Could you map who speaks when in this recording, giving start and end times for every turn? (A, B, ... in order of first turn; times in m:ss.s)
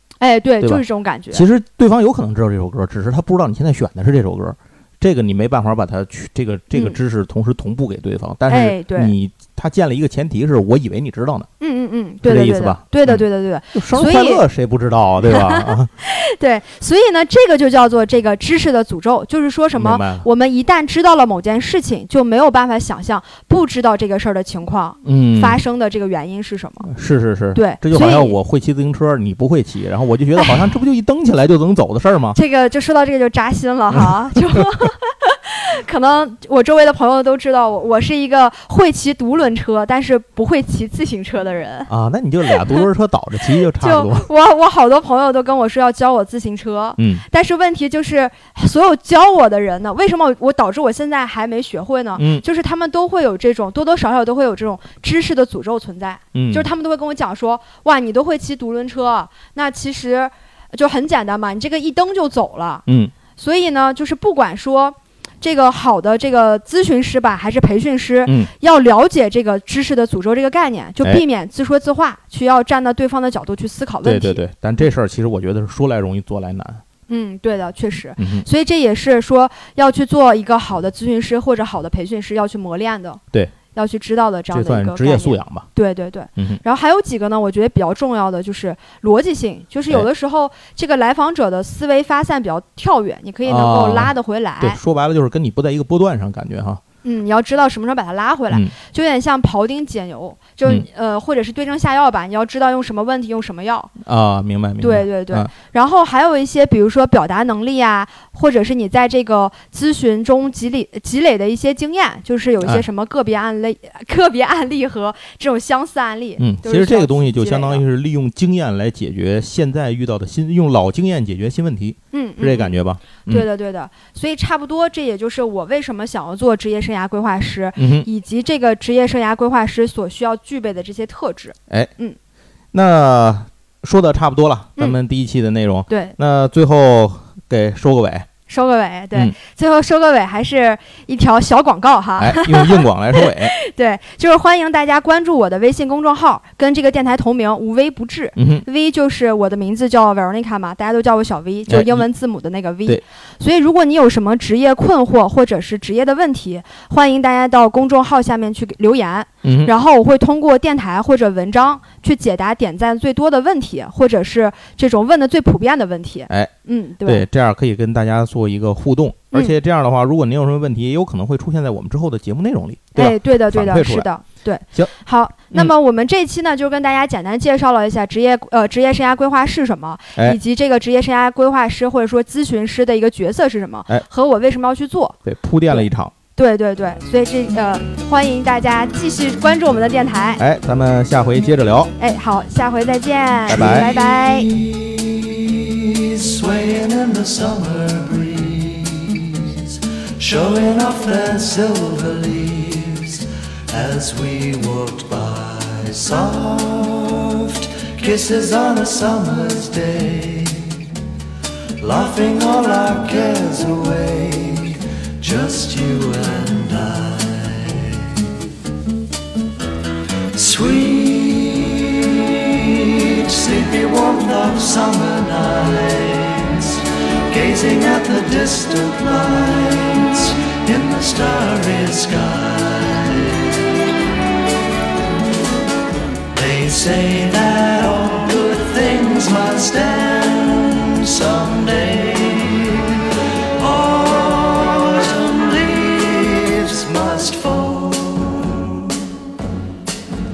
0:00.2-0:01.4 A
0:00.6-0:11.5 B
0:06.7-0:07.0 A
0:08.5-0:09.1 A
0:11.6-0:14.4 A
0:12.2-0:15.9 B
0:15.3-0:26.9 A
0:19.7-0:20.2 B
0:25.0-0:25.6 B
0:26.9-0:32.4 B
0:27.5-0:28.3 A
0:30.4-0:30.6 A
0:32.3-0:41.9 A
0:41.9-0:44.3 B
0:42.5-0:42.8 A
0:43.8-1:14.4 A
0:47.0-0:47.2 B
0:52.2-0:52.4 B
0:56.3-0:56.7 B
1:02.9-1:03.1 B
1:08.2-1:08.5 B
1:14.0-1:16.8 B
1:17.1-1:23.2 A
1:18.2-1:18.4 B
1:23.7-1:34.8 A
1:24.5-1:25.7 B
1:26.4-1:26.6 B
1:33.4-1:36.8 B
1:37.0-1:43.9 A
1:44.0-1:45.5 B
1:44.8-1:57.8 A
1:56.4-2:03.4 B
2:02.1-2:12.2 A
2:07.8-2:08.1 B
2:12.7-2:18.3 B
2:15.9-2:16.2 A
2:18.5-2:47.2 A
2:22.2-2:23.5 B
2:28.4-2:28.6 B
2:31.7-2:32.0 B
2:39.4-2:39.7 B
2:47.0-2:54.1 B
2:52.9-3:05.2 A
3:05.2-3:06.1 B
3:05.7-3:10.4 A
3:10.4-3:11.9 B
3:12.0-3:14.5 A
3:13.5-3:14.0 B
3:13.6-3:31.0 C
3:31.8-3:38.3 C
3:40.3-3:53.7 C
3:56.3-4:09.2 C